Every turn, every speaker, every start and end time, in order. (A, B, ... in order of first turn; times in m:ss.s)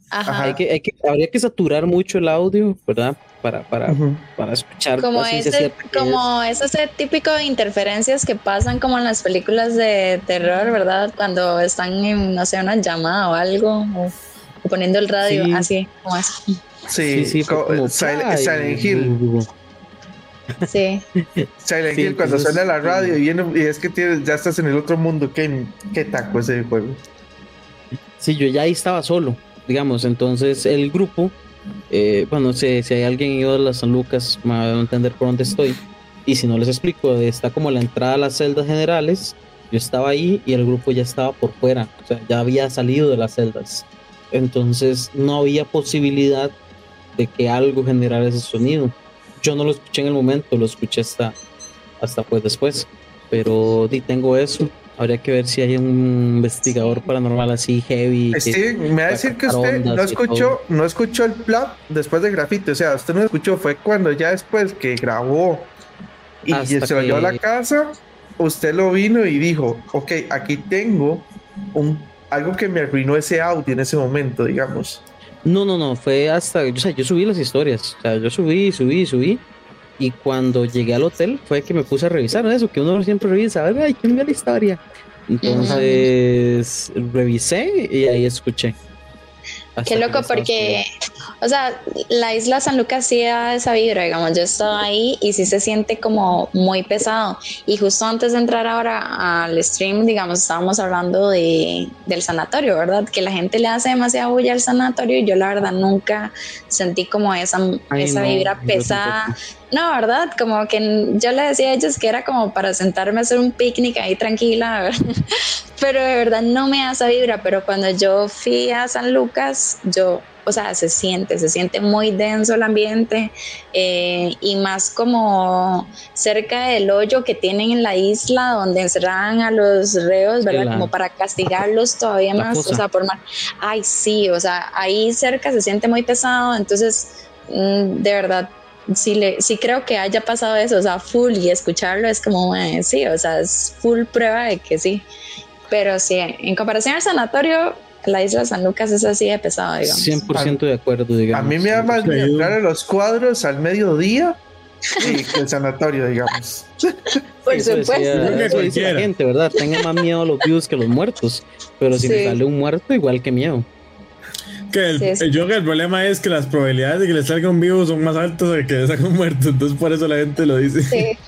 0:00.1-0:00.6 A
0:00.3-0:00.6 B
0:00.4-0:06.2 C
0:03.9-0:04.2 B
0:05.0-0:16.6 A
0:15.2-0:15.7 C
0:16.9-0:19.2 B
0:17.0-0:19.5 C
0:20.7-0:21.1 A
0:21.2-0:23.2 C
0:21.6-0:27.0 B
0:28.2-0:31.4 C
0:31.9-0:46.6 C
0:47.2-0:51.4 C
0:52.0-1:00.6 C
0:58.3-1:05.7 B
1:06.4-1:15.0 B
1:06.5-1:07.4 C
1:15.4-1:19.4 C
1:20.0-1:28.8 C
1:25.4-1:26.0 A
1:29.8-1:30.8 C
1:29.9-1:30.9 A
1:31.4-2:25.1 A
1:47.9-1:49.3 C
2:10.4-2:10.9 C
2:12.4-2:12.8 C
2:25.7-2:30.2 A
2:29.8-2:32.1 C
2:30.3-2:30.6 B
2:31.3-2:34.4 B
2:32.0-2:32.6 D
2:35.0-2:37.2 B
2:37.4-2:43.7 C
2:37.5-2:38.6 A
2:38.2-2:39.1 D
2:41.9-2:42.4 A
2:44.7-2:51.1 D
2:45.0-2:45.2 A
2:50.9-2:51.2 A